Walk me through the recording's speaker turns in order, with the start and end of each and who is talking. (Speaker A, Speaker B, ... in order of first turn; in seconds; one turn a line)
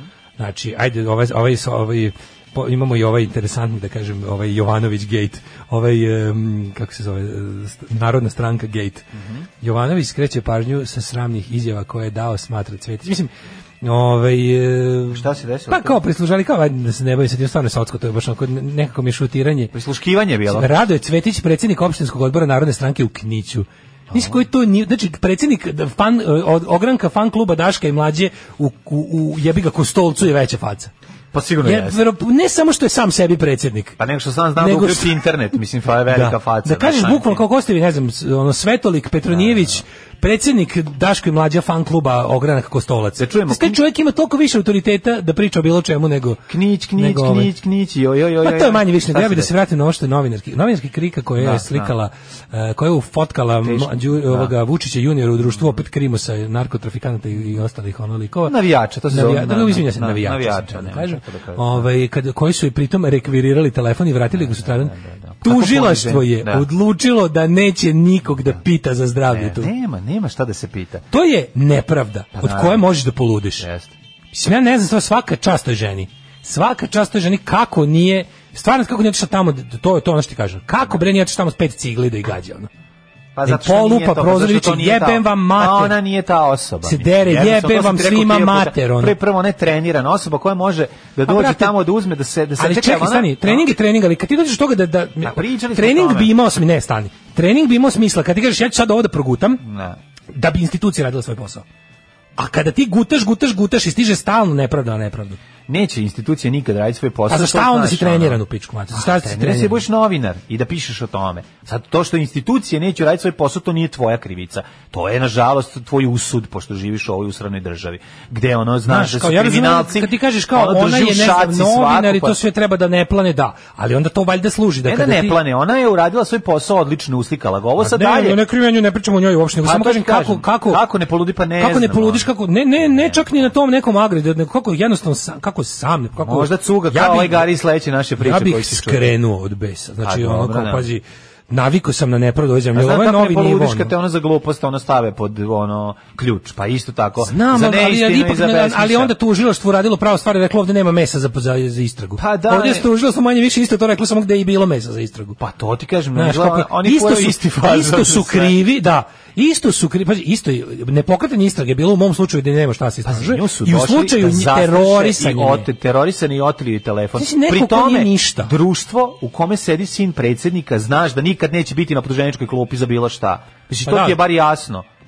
Speaker A: 0.4-9.1
Speaker B: 9.2-9.4
Speaker A: 9.6-13.3
Speaker A: 13.8-19.7
Speaker B: 15.1-16.0
Speaker B: 19.7-20.8
Speaker A: 20.5-30.9
Speaker B: 24.1-24.4
Speaker B: 31.3-32.0
Speaker A: 31.6-34.0
Speaker B: 34.0-37.4
Speaker A: 34.6-35.2
Speaker A: 36.1-47.5
Speaker B: 39.3-39.8
Speaker B: 43.2-43.8
Speaker B: 46.5-49.5
Speaker A: 48.4-69.7
Speaker B: 51.4-51.9
Speaker B: 53.6-54.5
Speaker B: 58.5-61.9
Speaker B: 64.3-66.7
Speaker B: 68.3-68.6
Speaker B: 69.3-71.0
Speaker A: 71.1-73.7
Speaker B: 72.3-72.9
Speaker B: 73.6-73.9
Speaker A: 74.3-82.7
Speaker B: 83.3-93.7
Speaker A: 83.4-86.0
Speaker A: 86.8-89.2
Speaker A: 91.2-91.8
Speaker A: 92.6-99.6
Speaker B: 95.2-96.3
Speaker B: 99.6-100.0
Speaker A: 100.3-101.6
Speaker A: 102.4-105.4
Speaker B: 105.7-122.4
Speaker A: 107.3-109.8
Speaker A: 118.9-125.4
Speaker B: 124.8-128.4
Speaker A: 127.8-130.8
Speaker B: 129.6-133.5
Speaker A: 131.6-137.5
Speaker B: 136.2-139.1
Speaker A: 138.2-143.9
Speaker B: 140.0-140.8
Speaker B: 142.7-149.1
Speaker A: 147.2-155.4
Speaker B: 152.2-152.9
Speaker B: 155.4-158.6
Speaker A: 156.1-165.7
Speaker B: 163.0-174.8
Speaker A: 167.2-168.5
Speaker A: 173.8-174.2